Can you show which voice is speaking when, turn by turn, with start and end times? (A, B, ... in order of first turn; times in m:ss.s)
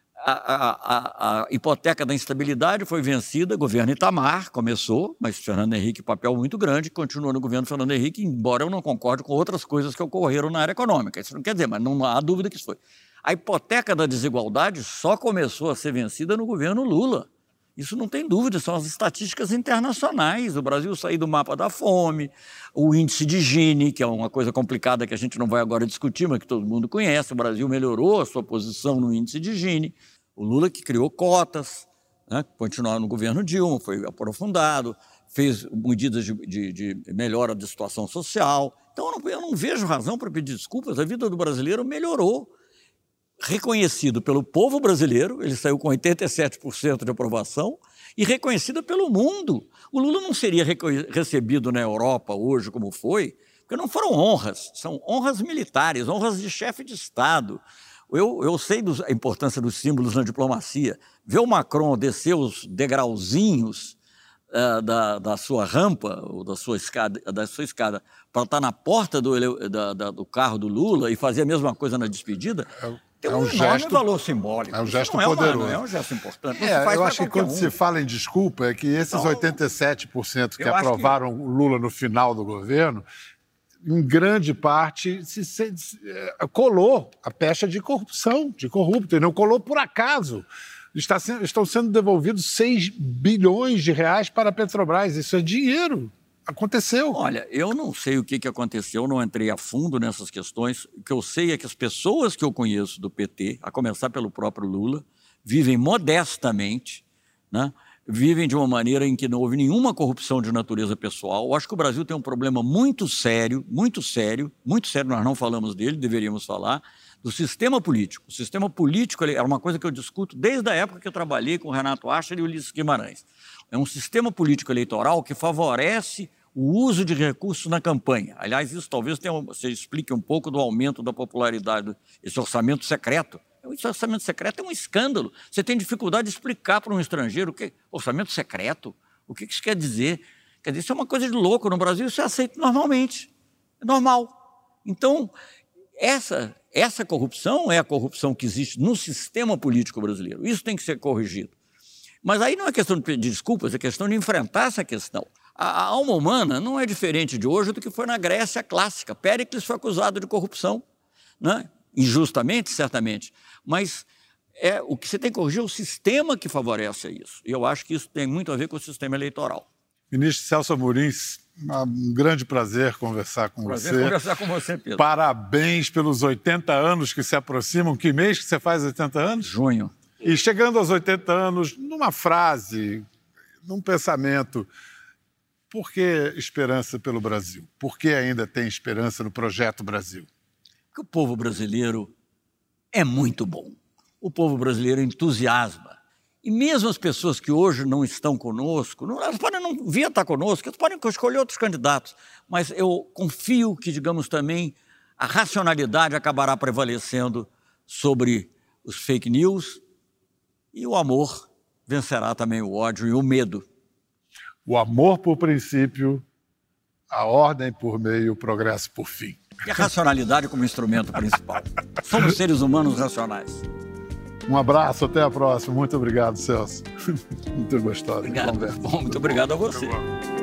0:00.2-0:42.5 A
0:43.4-1:04.0 A
1:04.5-1:12.7 A
1:12.8-1:14.0 B
1:13.2-1:17.7 A
1:14.7-1:15.8 B
1:16.5-1:23.0 B
1:19.1-1:19.4 A
1:20.6-1:21.1 A
1:23.8-1:37.2 B
1:37.1-2:23.3 A
2:23.8-2:25.3 A
2:26.0-2:31.5 A
2:32.2-2:40.8 A
2:41.4-2:44.0 A
2:44.6-2:49.7 A
2:50.1-2:54.2 B
2:53.6-2:55.0 A
2:55.0-2:59.5 B
2:59.4-2:59.9 A
3:00.2-3:03.0 B
3:03.6-3:04.7 B
3:05.7-3:10.3 B
3:10.9-3:12.1 A
3:12.9-3:29.8 A
3:30.7-3:33.6 A
3:34.6-3:36.2 B
3:37.1-3:39.9 B
3:39.6-3:43.6 A
3:44.5-3:46.9 B
3:47.5-3:49.2 B
3:48.2-3:50.0 A